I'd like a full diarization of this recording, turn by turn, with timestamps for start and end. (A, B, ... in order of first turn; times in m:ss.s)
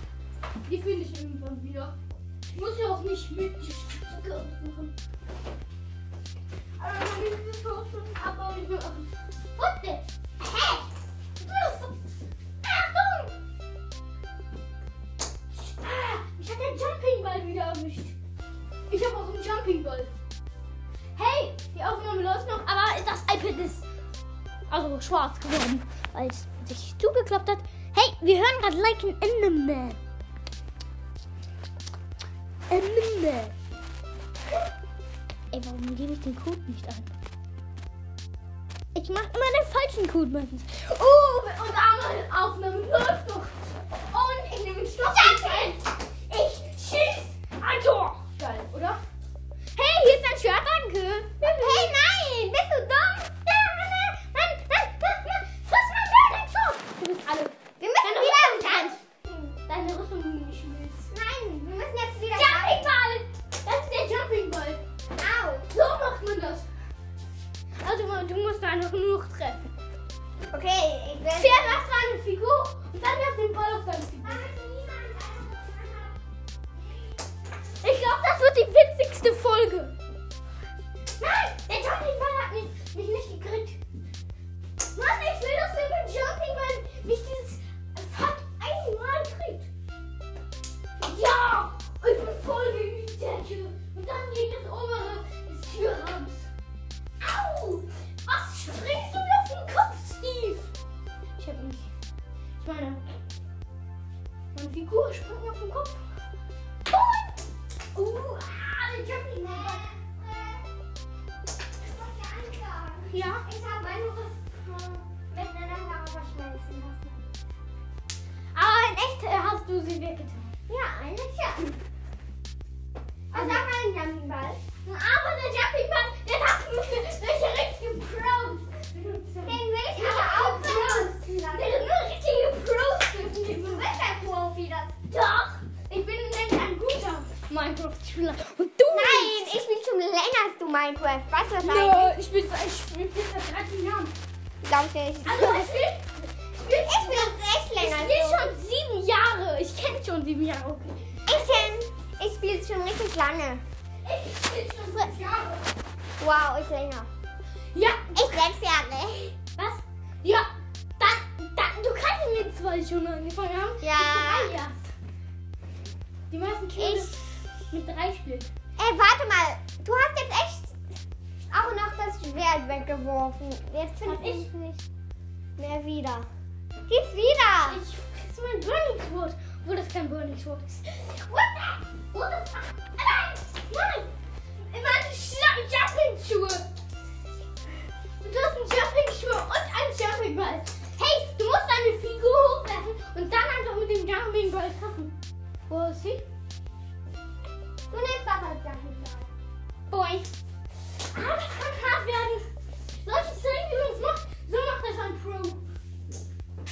0:00.7-0:01.9 A
0:02.5-0:04.9 A
0:06.8-0:10.9 A
0:11.4-0:12.0 A
0:12.6-0:13.3 A
0:15.6-0:18.2 A
0:18.9-0:20.1 A
0:21.2-0:23.9 A
0:24.7-0:30.0 A
0:32.7-0:33.5 A
0:35.5-0:37.1 A
0:38.9-0:43.6 A
0:44.1-0:49.0 A
0:45.0-0:45.8 B
0:49.8-0:52.0 A
0:51.4-0:53.4 B
0:53.5-0:59.0 A
0:57.8-0:59.5 B
0:59.7-1:01.1 A
1:01.1-1:03.0 B
1:02.3-1:04.8 A
1:05.2-1:05.7 B
1:05.7-1:06.7 A
1:07.8-1:09.6 A
1:10.5-1:11.8 B
1:11.3-1:14.5 A
1:14.2-1:16.2 B
1:16.8-1:17.2 B
1:17.8-1:19.9 A
1:21.2-1:23.8 A
1:24.9-1:29.7 A
1:31.0-1:36.5 A
1:37.2-1:40.7 A
1:41.4-1:41.9 A
1:42.6-1:43.2 A
1:44.5-1:46.1 A
1:46.9-1:47.4 A
1:47.9-1:49.9 A
1:49.4-1:50.7 B
1:51.8-1:57.2 B
1:53.1-1:53.4 A
1:58.6-2:00.5 A
2:00.7-2:01.8 B
2:03.3-2:04.6 B
2:03.3-2:03.7 A
2:04.8-2:14.0 A
2:09.4-2:11.8 B
2:13.6-2:15.0 B
2:15.1-2:19.5 A
2:18.9-2:22.2 B
2:21.6-2:24.1 A
2:24.6-2:25.8 B
2:25.2-2:31.7 A
2:26.7-2:28.5 B
2:31.3-2:33.6 B
2:34.0-2:35.7 A
2:36.2-2:37.1 B
2:37.7-2:38.4 A
2:38.2-2:39.3 B
2:39.6-2:40.5 A
2:41.0-2:44.9 A
2:43.8-2:44.6 B
2:46.3-2:48.5 A
2:46.8-2:47.1 B
2:48.8-2:50.8 B
2:51.5-2:54.7 B
2:54.0-2:54.8 A
2:55.6-2:56.3 B
2:56.9-2:57.8 B
2:57.6-3:06.6 A
3:08.2-3:15.1 A
3:15.7-3:16.2 A
3:17.9-3:19.3 B
3:19.9-3:20.3 A
3:21.0-3:25.7 A